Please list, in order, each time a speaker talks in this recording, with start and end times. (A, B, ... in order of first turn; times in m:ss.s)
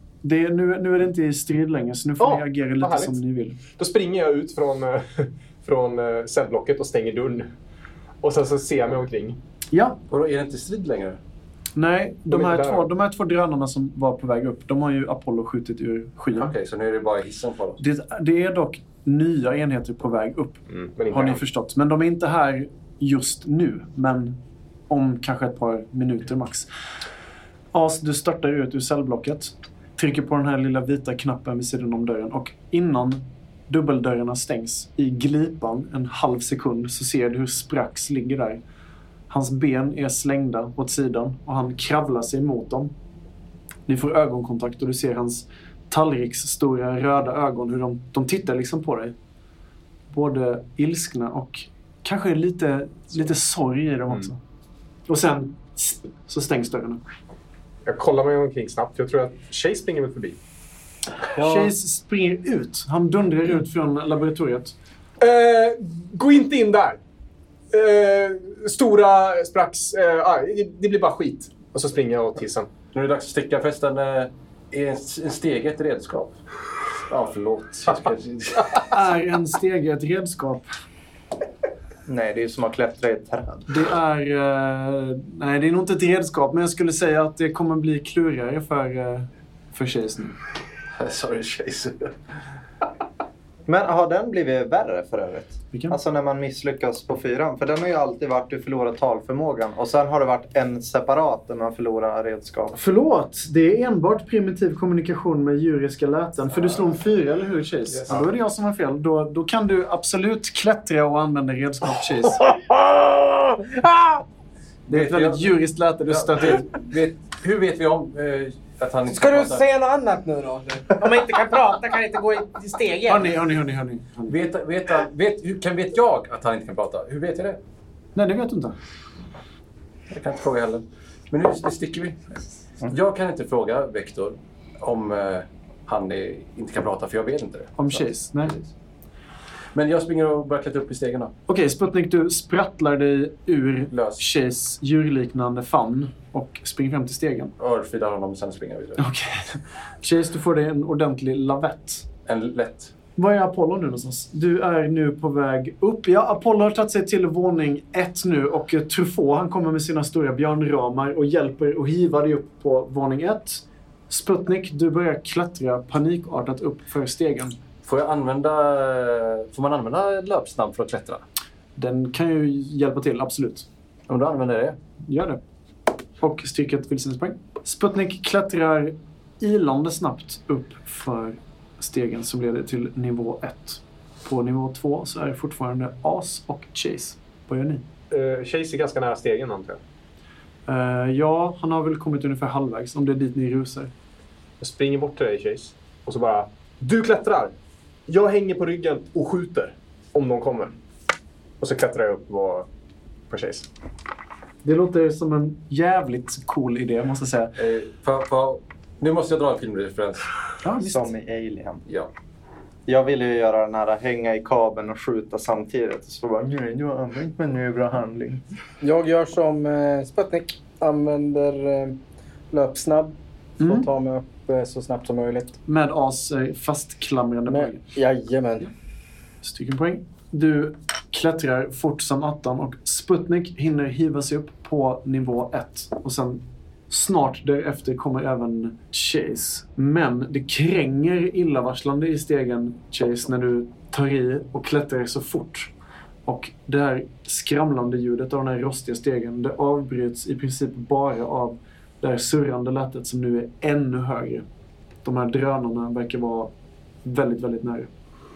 0:00.2-0:03.6 A
0:02.2-0:03.2 B
0:03.7-0:07.5 B
0:08.2-0:09.4 B
0:09.7-0:10.0 A
0:10.1-0:11.2 C
0:11.8-0:16.5 A
0:12.3-0:12.9 B
0:16.3-0:17.8 C
0:17.8-0:24.4 A
0:20.7-0:21.4 B
0:24.9-0:26.7 A
0:27.7-0:38.6 A
0:39.3-0:42.9 A
0:43.9-0:49.1 A
0:50.1-0:54.4 A
0:55.1-0:57.0 A
0:57.8-1:00.4 B
1:01.3-1:04.7 A
1:05.2-1:07.0 B
1:07.7-1:12.7 B
1:12.9-1:16.4 C
1:17.1-1:18.9 C
1:18.9-1:20.7 A
1:22.1-1:23.7 D
1:23.7-1:30.4 A
1:30.9-1:32.1 C
1:33.7-1:42.8 D
1:35.7-1:36.0 A
1:42.7-1:52.4 A
1:52.5-1:54.2 E
1:54.9-1:55.5 C
1:54.9-1:56.7 A
1:56.1-1:59.6 C
1:59.1-2:03.3 E
2:03.0-2:04.4 A
2:04.3-2:07.6 C
2:08.1-2:08.8 A
2:10.1-2:18.7 C
2:17.8-2:18.6 A
2:19.7-2:21.3 C
2:21.5-2:27.5 A
2:23.9-2:24.2 C
2:27.6-2:29.0 C
2:29.0-2:32.0 A
2:32.2-2:32.9 C
2:33.2-2:47.6 A
2:47.8-2:51.2 C
2:51.8-2:53.6 A
2:54.1-2:54.8 C
2:55.0-2:55.4 A
2:56.2-3:07.9 A
3:08.1-3:09.8 B
3:10.7-3:13.9 A
3:14.6-3:17.5 B
3:18.1-3:20.8 B
3:21.6-3:22.7 B
3:23.3-3:23.7 B
3:24.6-3:27.5 A
3:27.6-3:30.3 C
3:30.6-3:31.1 A
3:30.8-3:31.8 D
3:32.9-3:38.4 D
3:38.8-3:42.0 E
3:42.5-3:45.6 E
3:43.6-3:43.9 A
3:45.6-3:47.8 A
3:47.5-3:48.7 E
3:49.4-4:05.7 A
4:06.2-4:14.4 A
4:15.0-4:16.5 A
4:17.0-4:17.9 A